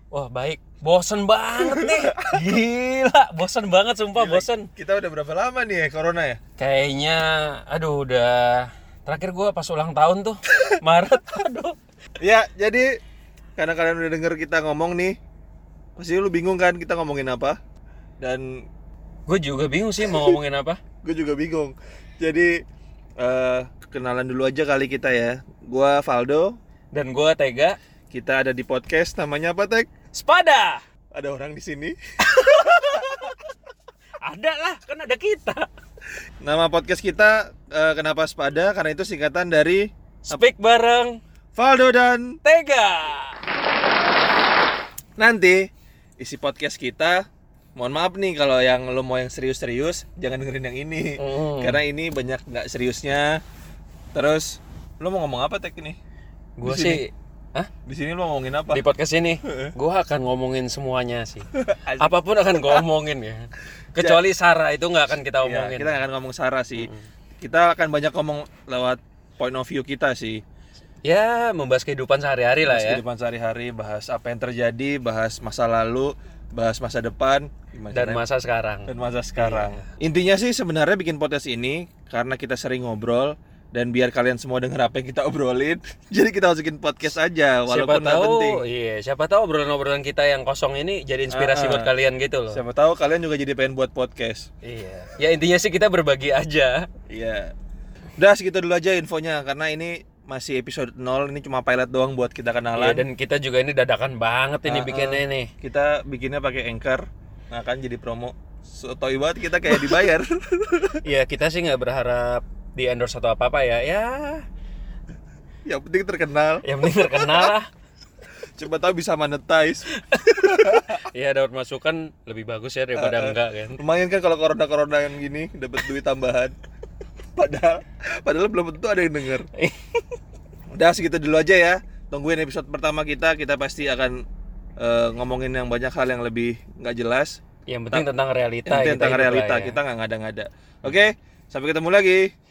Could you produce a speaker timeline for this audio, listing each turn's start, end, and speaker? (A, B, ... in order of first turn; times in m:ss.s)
0:00.1-0:04.7 A
0:01.6-0:02.4 B
0:04.2-0:06.4 B
0:06.6-0:11.8 A
0:12.2-0:12.9 B
0:13.6-0:15.2 B
0:16.0-0:17.6 B
0:18.2-0:18.7 B
0:19.3-0:20.8 A
0:21.0-0:22.6 B
0:23.2-0:26.6 B
0:26.9-0:27.8 A
0:28.1-0:29.9 B
0:30.1-0:30.8 A
0:31.1-0:32.0 B
0:32.3-0:33.4 A
0:32.7-0:33.3 B
0:34.2-0:35.7 A
0:36.4-0:40.4 B
0:40.3-0:41.2 A
0:41.6-0:42.4 B
0:42.4-0:43.4 A
0:45.2-0:45.7 B
0:46.2-0:53.4 B
0:51.2-0:51.8 A
0:54.1-0:56.0 B
0:56.6-0:57.7 A
0:56.6-0:57.0 B
0:57.9-0:58.8 B
0:58.7-1:06.0 A
0:59.5-0:59.7 B
1:01.6-1:02.8 B
1:04.0-1:04.2 B
1:05.4-1:06.9 B
1:06.8-1:07.1 A
1:07.4-1:10.4 B
1:11.0-1:13.0 A
1:12.7-1:18.2 B
1:17.9-1:19.9 A
1:18.9-1:28.6 B
1:27.7-1:32.6 A
1:31.3-1:31.9 B
1:32.5-1:34.5 B
1:34.6-1:36.9 A
1:37.1-1:37.5 B
1:38.2-1:43.1 B
1:42.8-1:45.5 A
1:44.6-1:51.0 B
1:51.0-1:54.5 A
1:55.7-1:57.5 B
1:56.6-1:57.7 A
1:58.6-2:01.0 B
2:00.1-2:03.8 A
2:03.0-2:06.5 B
2:07.4-2:09.5 B
2:09.6-2:10.0 A
2:10.7-2:14.2 B
2:14.8-2:17.4 B
2:17.7-2:19.8 A
2:18.7-2:22.3 B